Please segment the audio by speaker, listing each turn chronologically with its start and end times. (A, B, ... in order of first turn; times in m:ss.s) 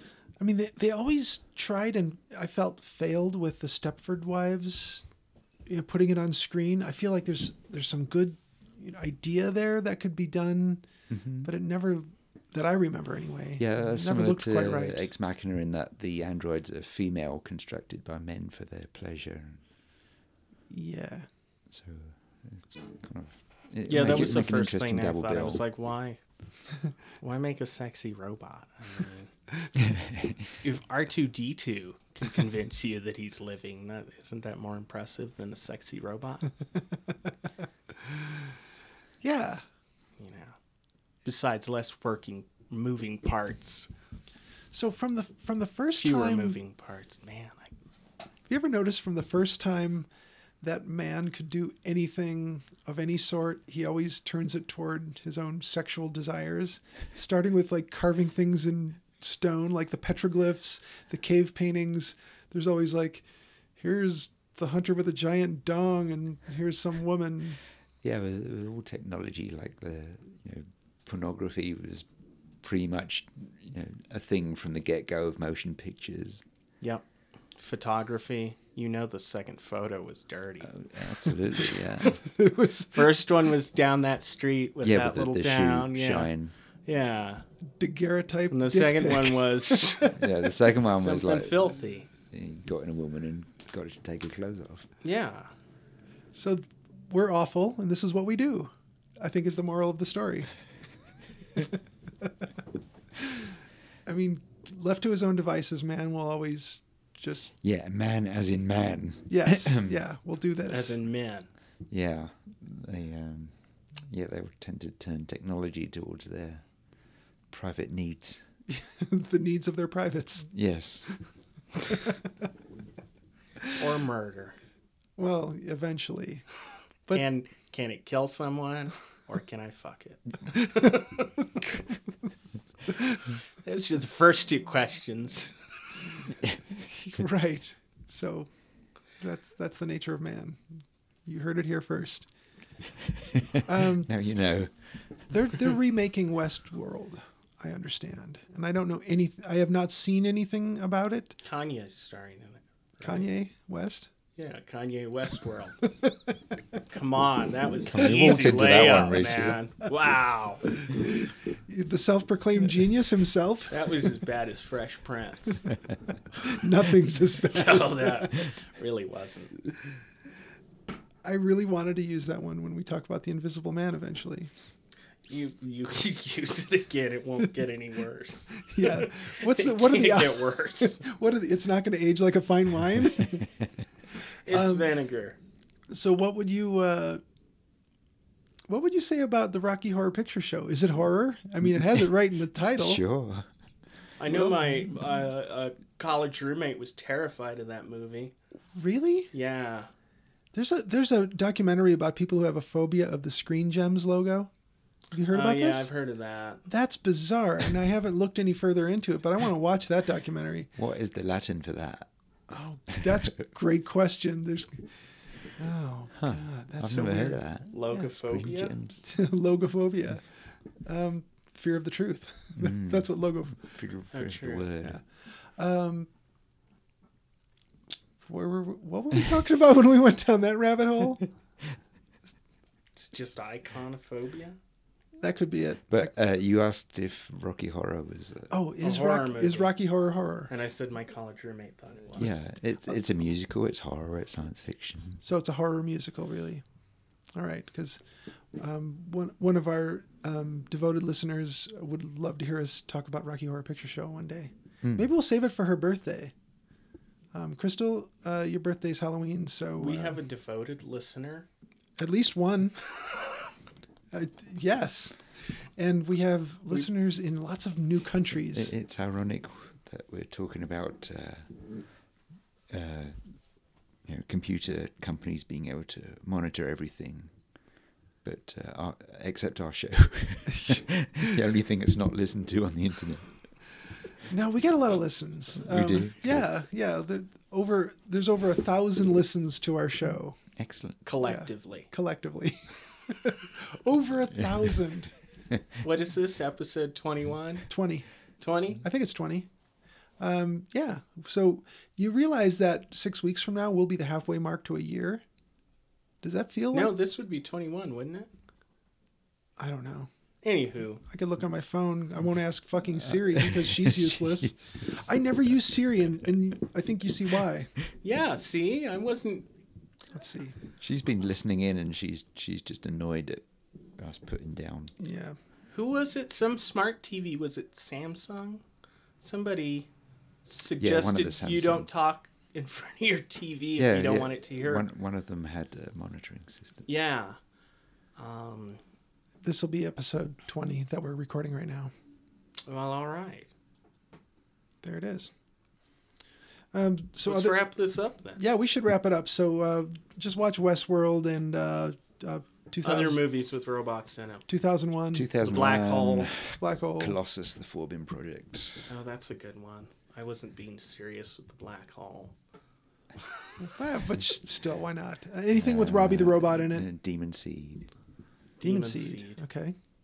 0:00.4-0:05.1 A
0:05.7-0:10.8 A
0:11.1-0:11.5 B
0:11.4-0:15.1 A
0:13.6-0:19.6 B
0:20.7-0:21.3 A
0:21.7-0:25.6 B
0:23.9-0:26.2 C
0:27.2-0:29.3 C
0:29.8-0:30.5 B
0:30.6-0:36.5 C
0:39.2-0:39.6 A
0:40.2-0:40.6 C
0:41.2-0:43.9 C
0:44.7-0:46.6 A
0:46.0-0:47.7 C
0:48.5-0:50.1 A
0:50.6-1:03.2 A
1:03.8-1:07.6 A
1:08.0-1:12.1 B
1:12.6-1:16.4 B
1:17.6-1:20.7 C
1:20.6-1:22.2 B
1:22.1-1:23.2 A
1:22.9-1:26.3 C
1:24.8-1:26.5 B
1:26.9-1:27.4 C
1:27.8-1:30.2 A
1:28.5-1:30.2 C
1:30.2-1:31.6 B
1:31.0-1:32.1 C
1:32.3-1:34.9 B
1:35.0-1:35.5 C
1:36.3-1:40.5 A
1:41.6-1:42.3 A
1:44.1-1:47.5 A
1:47.6-1:50.0 B
1:49.3-1:51.0 A
1:50.7-1:51.5 C
1:51.9-1:56.7 B
1:57.5-1:58.4 B
1:58.7-2:00.5 A
2:00.5-2:01.1 B
2:03.8-2:04.6 C
2:05.2-2:06.5 A
2:07.1-2:11.3 C
2:13.6-2:15.7 C
2:16.8-2:18.5 A
2:19.1-2:20.6 A
2:21.3-2:22.3 A
2:23.1-2:25.0 B
2:23.6-2:24.4 A
2:25.3-2:31.4 A
2:31.4-2:33.3 C
2:33.0-2:34.1 A
2:34.4-2:35.8 C
2:36.9-2:40.7 C
2:37.9-2:39.6 B
2:40.8-2:44.0 A
2:43.7-2:45.7 C
2:46.4-2:48.5 A
2:47.5-2:49.5 C
2:51.2-2:54.5 A
2:55.3-3:01.0 C
2:58.7-3:03.5 A
3:04.5-3:05.4 C
3:04.5-3:04.9 A
3:05.9-3:07.2 A
3:08.7-3:13.0 A
3:12.8-3:13.5 B
3:14.2-3:18.3 C
3:14.3-3:14.7 A
3:18.8-3:19.3 A
3:19.3-3:19.9 C
3:20.5-3:24.5 A
3:25.1-3:25.9 A
3:25.3-3:26.6 C
3:26.7-3:30.7 A
3:30.8-3:32.1 B
3:32.5-3:34.9 A
3:35.6-3:37.4 A
3:36.2-3:39.0 B
3:37.7-3:38.7 C
3:39.0-3:40.3 A
3:40.8-3:43.7 A
3:42.6-3:43.1 B
3:43.6-3:45.0 B
3:44.1-3:44.7 C
3:44.8-3:46.1 A
3:48.2-3:51.3 A
3:53.0-3:54.6 C
3:55.2-3:56.1 A
3:55.9-3:58.6 B
3:58.5-4:00.5 A
3:58.8-3:59.7 C
4:00.5-4:02.4 C
4:02.2-4:05.2 B
4:05.2-4:06.6 A
4:07.4-4:08.0 A
4:08.6-4:16.3 A
4:17.3-4:20.2 A
4:19.8-4:21.5 C
4:22.0-4:22.8 A
4:24.1-4:25.2 A
4:25.8-4:28.7 A
4:28.5-4:31.5 B
4:32.7-4:33.2 B
4:34.0-4:37.3 B
4:38.2-4:43.5 B
4:44.3-4:50.4 A
4:45.6-4:46.5 B
4:50.6-4:51.0 B
4:51.0-4:51.9 C
4:51.2-4:55.1 A
4:55.8-4:57.7 C
4:57.7-4:58.1 A
4:58.4-4:58.8 C
4:58.8-4:59.5 A
5:00.2-5:05.2 A
5:06.2-5:07.0 A
5:06.7-5:08.3 C
5:09.6-5:10.1 A
5:10.4-5:11.0 C
5:11.1-5:17.7 A
5:13.3-5:14.9 B
5:18.0-5:19.5 C
5:20.2-5:20.6 A
5:20.8-5:23.5 B
5:24.0-5:25.0 B
5:25.0-5:25.4 A
5:25.7-5:28.6 C
5:29.2-5:29.9 C
5:30.4-5:34.9 C
5:30.8-5:31.9 B
5:33.8-5:36.8 B
5:36.9-5:37.4 C
5:38.2-5:38.8 C
5:39.4-5:41.9 A
5:42.7-5:43.5 C
5:44.8-5:45.3 A
5:46.7-5:47.6 A
5:47.2-5:48.4 C
5:48.4-5:53.2 A
5:52.8-5:54.5 C
5:54.5-5:55.3 A
5:55.1-5:58.9 B
5:55.4-5:56.3 C
5:56.6-5:57.2 A
5:58.9-6:02.4 C
6:03.2-6:03.6 C
6:03.6-6:06.9 A
6:05.5-6:07.9 B
6:08.6-6:09.4 C
6:08.6-6:09.8 A